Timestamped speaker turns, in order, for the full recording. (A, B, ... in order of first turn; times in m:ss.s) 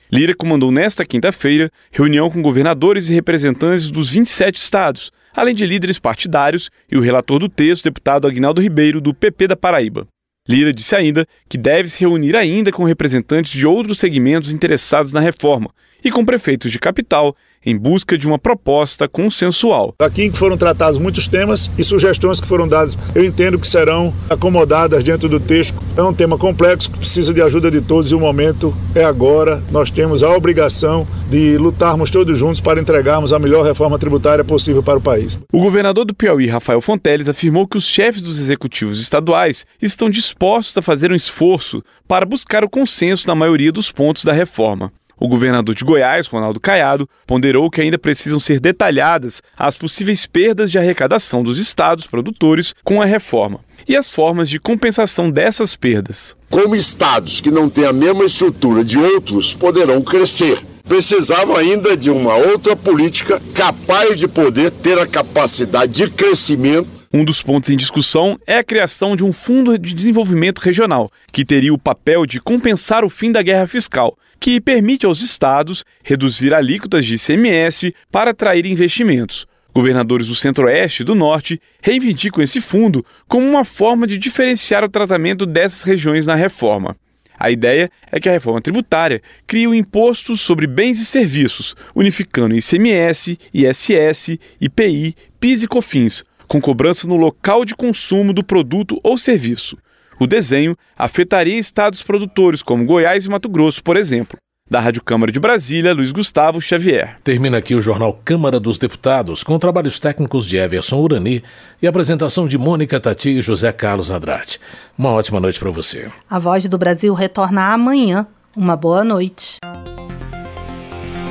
0:00.1-0:19.9 A
0:20.0-0:35.4 B
0:35.5-0:56.4 A
0:56.5-1:06.9 C
1:07.1-1:47.2 A
1:47.2-1:56.1 D
1:56.3-1:59.6 E